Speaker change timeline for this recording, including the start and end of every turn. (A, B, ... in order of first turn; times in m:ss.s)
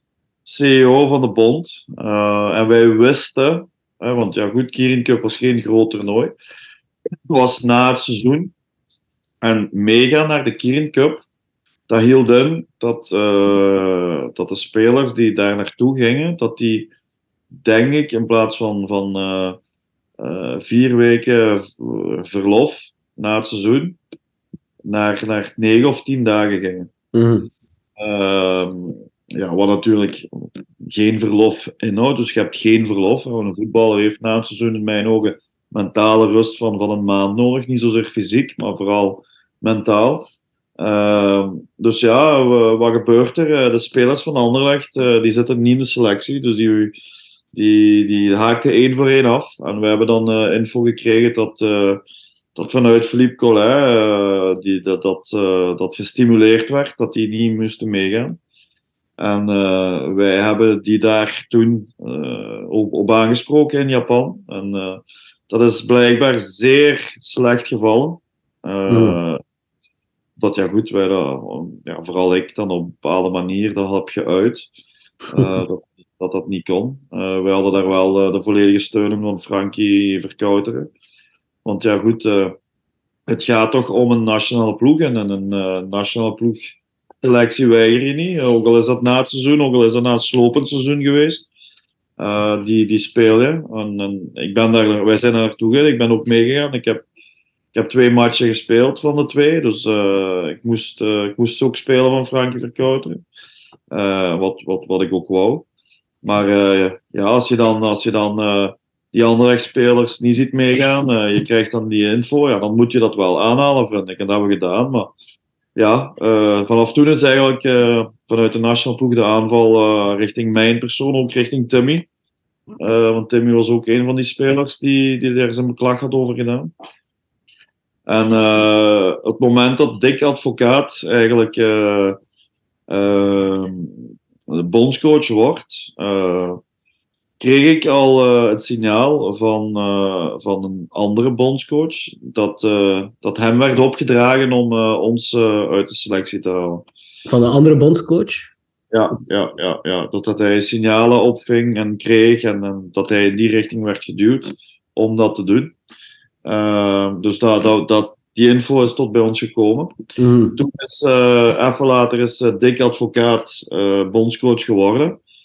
0:00.4-0:06.3 A
0:07.3-0:08.5 A
0:09.4-0:11.2 A
0:11.9-0:16.9 A
0:17.6-0:19.6 A
0:20.2-0:24.0 A
0:24.8-0:26.9 A
0:27.1-0:27.5 B
0:28.0-0:46.9 A
0:47.5-0:52.0 A
0:52.6-0:58.4 A
0:59.2-1:09.4 A
1:08.9-1:09.2 B
1:10.4-1:14.7 A
1:15.3-1:20.9 A
1:21.6-1:22.6 A
1:23.3-1:26.7 A
1:27.2-1:31.5 A
1:32.2-1:37.0 A
1:37.7-1:43.2 A
1:43.9-1:45.6 A
1:46.2-1:55.1 A
1:55.8-2:02.1 A
2:02.8-2:06.7 A
2:08.1-2:12.2 A
2:12.9-2:16.6 A
2:17.4-2:26.8 A
2:27.3-2:28.5 B
2:28.9-2:35.7 A
2:36.4-2:39.9 A
2:40.2-2:40.6 B
2:40.6-2:45.2 A